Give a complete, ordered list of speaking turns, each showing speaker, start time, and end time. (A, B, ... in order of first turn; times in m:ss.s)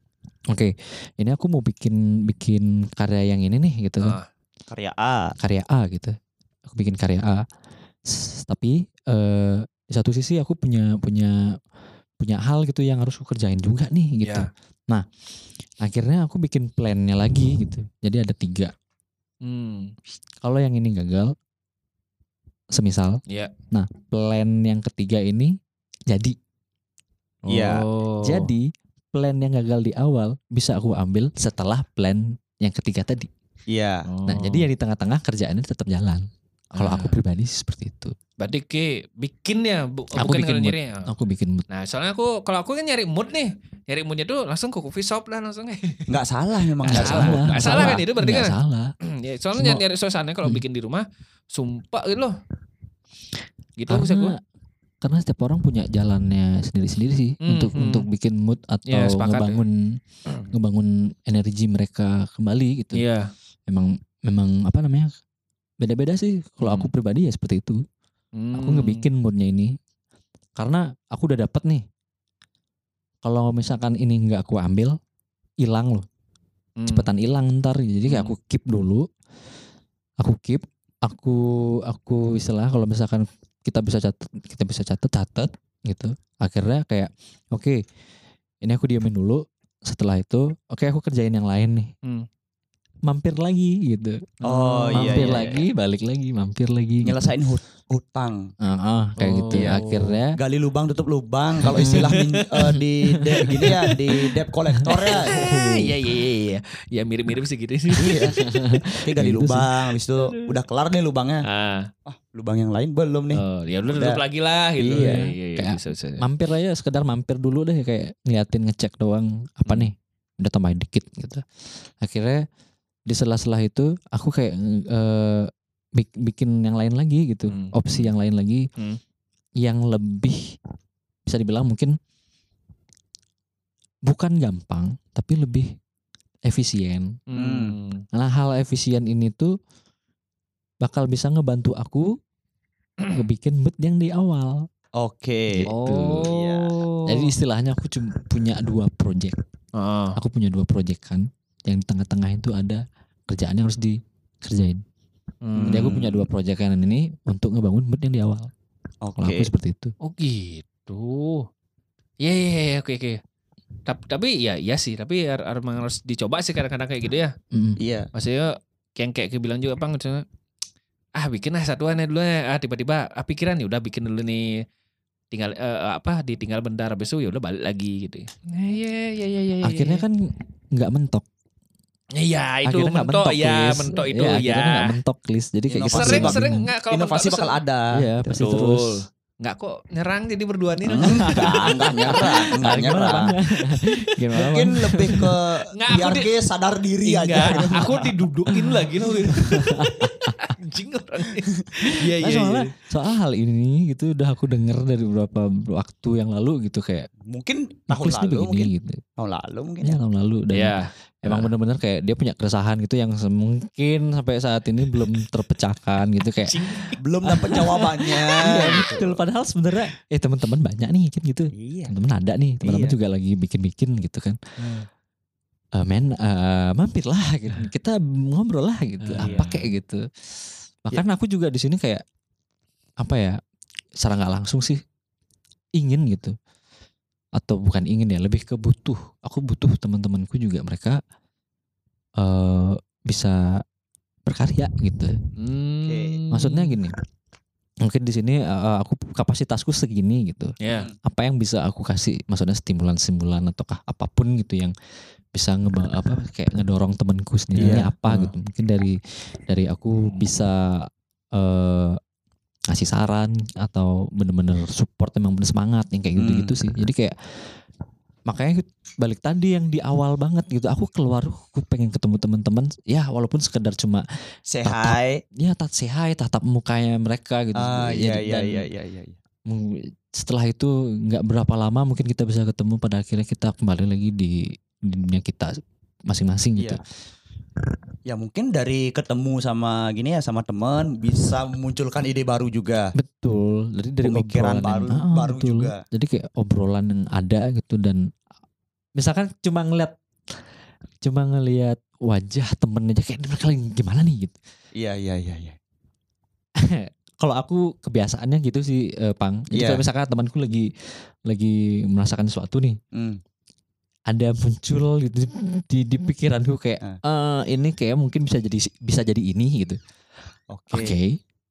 0:00.5-0:04.2 A
0:04.0-0:04.2 B
0:04.7-0:05.3 C
0:05.4-0:06.1 A
0:06.6-0:07.4 A
0:08.0-0:11.6 A
0:12.2-0:15.0 A
0:14.2-0:14.5 B
0:15.8-0:18.7 A
0:19.4-0:19.9 B
0:20.4-0:21.3 A
0:22.7-0:23.2 A
0:23.7-0:25.6 A
0:26.1-0:26.4 A
0:27.5-0:28.5 B
0:27.5-0:27.8 C
0:28.2-0:33.3 A
0:33.7-0:34.0 C
0:34.0-0:34.7 B
0:34.3-0:38.1 A
0:36.7-0:37.2 B
0:38.4-0:41.1 B
0:40.2-0:41.6 A
0:41.7-0:46.1 B
0:46.1-0:47.9 C
0:46.8-0:48.5 B
0:46.9-0:48.9 A
0:49.1-0:52.3 B
0:49.5-0:49.8 A
0:53.8-0:54.3 B
0:53.9-0:54.4 A
0:55.0-1:00.0 A
0:57.4-0:58.1 B
0:58.9-0:59.6 B
1:00.5-1:03.0 A
1:02.9-1:03.3 B
1:03.7-1:05.1 A
1:05.8-1:07.8 A
1:06.6-1:06.9 B
1:08.4-1:09.1 B
1:08.5-1:09.7 A
1:10.6-1:11.8 A
1:13.2-1:14.9 A
1:15.6-1:16.0 A
1:16.8-1:17.1 B
1:16.9-1:19.0 A
1:18.1-1:18.3 B
1:20.2-1:27.8 A
1:28.6-1:31.9 A
1:33.0-1:34.2 A
1:34.4-1:35.6 B
1:34.5-1:35.6 C
1:34.9-1:37.2 A
1:37.0-1:38.5 C
1:38.6-1:40.4 A
1:39.2-1:40.2 B
1:40.4-1:45.3 C
1:41.6-1:42.2 A
1:41.7-1:42.5 B
1:43.4-1:44.3 B
1:44.8-1:48.4 B
1:45.3-1:45.9 A
1:48.0-1:48.4 C
1:48.4-1:49.7 A
1:49.0-1:51.4 C
1:51.4-1:51.9 B
1:52.0-1:53.4 C
1:53.4-1:56.2 B
1:53.9-1:54.2 C
1:54.8-1:55.2 C
1:54.9-2:01.4 A
2:02.0-2:02.4 A
2:03.1-2:08.7 A
2:07.5-2:08.1 B
2:09.6-2:10.4 A
2:11.2-2:11.9 A
2:14.0-2:15.7 A
2:16.4-2:17.1 A
2:17.3-2:18.0 B
2:17.4-2:17.7 C
2:18.1-2:19.5 A
2:20.8-2:22.1 A
2:23.1-2:24.6 A
2:25.0-2:25.6 C
2:25.5-2:26.3 A
2:25.7-2:27.3 B
2:26.3-2:26.8 C
2:27.1-2:29.4 A
2:29.7-2:30.2 B
2:30.2-2:34.8 A
2:35.4-2:36.2 B
2:35.6-2:36.1 C
2:35.7-2:38.5 A
2:39.0-2:39.5 C
2:39.2-2:39.9 A
2:40.0-2:41.5 B
2:42.2-2:43.2 B
2:43.9-2:47.3 B
2:47.5-2:47.8 A
2:47.8-2:48.1 C
2:48.1-2:50.2 B
2:51.2-2:54.6 B
2:55.3-3:00.0 B
2:59.6-3:00.2 A
3:00.7-3:01.2 A
3:02.1-3:05.0 B
3:02.6-3:06.7 A
3:05.7-3:08.3 C
3:05.9-3:07.5 B
3:07.9-3:09.0 A
3:08.4-3:13.3 B
3:10.9-3:13.3 C
3:11.0-3:15.3 A
3:14.3-3:18.1 C
3:15.7-3:16.3 B
3:17.0-3:22.7 B
3:18.5-3:18.8 A
3:19.3-3:20.5 A
3:22.1-3:27.1 A
3:27.3-3:30.0 C
3:27.9-3:29.0 A
3:29.8-3:36.5 A
3:30.5-3:31.5 B
3:36.5-3:39.1 B
3:37.0-3:38.9 C
3:37.3-3:44.4 A
3:41.6-3:41.9 C
3:42.6-3:43.0 C
3:45.8-3:50.0 A
3:49.0-3:49.5 B
3:49.1-3:49.6 C
3:50.8-3:52.0 A
3:53.0-3:53.4 A
3:54.0-3:54.8 A
3:55.8-3:56.3 A
3:57.4-4:01.0 A
4:02.2-4:03.6 A
4:04.2-4:05.1 A
4:05.4-4:06.8 B
4:05.8-4:06.2 C
4:06.3-4:06.9 A
4:07.8-4:14.7 A
4:10.6-4:10.9 B
4:15.3-4:22.0 A
4:17.6-4:18.3 C
4:22.7-4:27.5 A
4:26.2-4:26.5 C
4:28.3-4:34.0 A
4:34.5-4:35.2 C
4:34.6-4:38.7 A
4:37.6-4:39.2 C
4:39.5-4:45.5 A
4:46.1-4:46.8 A
4:48.1-4:52.9 C
4:53.0-4:58.0 A
4:54.0-4:55.8 C
4:59.0-4:59.9 A
5:01.0-5:04.4 A
5:04.8-5:05.6 C
5:06.6-5:12.8 A
5:09.5-5:09.8 C
5:12.9-5:13.2 C
5:14.1-5:19.8 A
5:20.5-5:21.0 C
5:20.7-5:21.2 A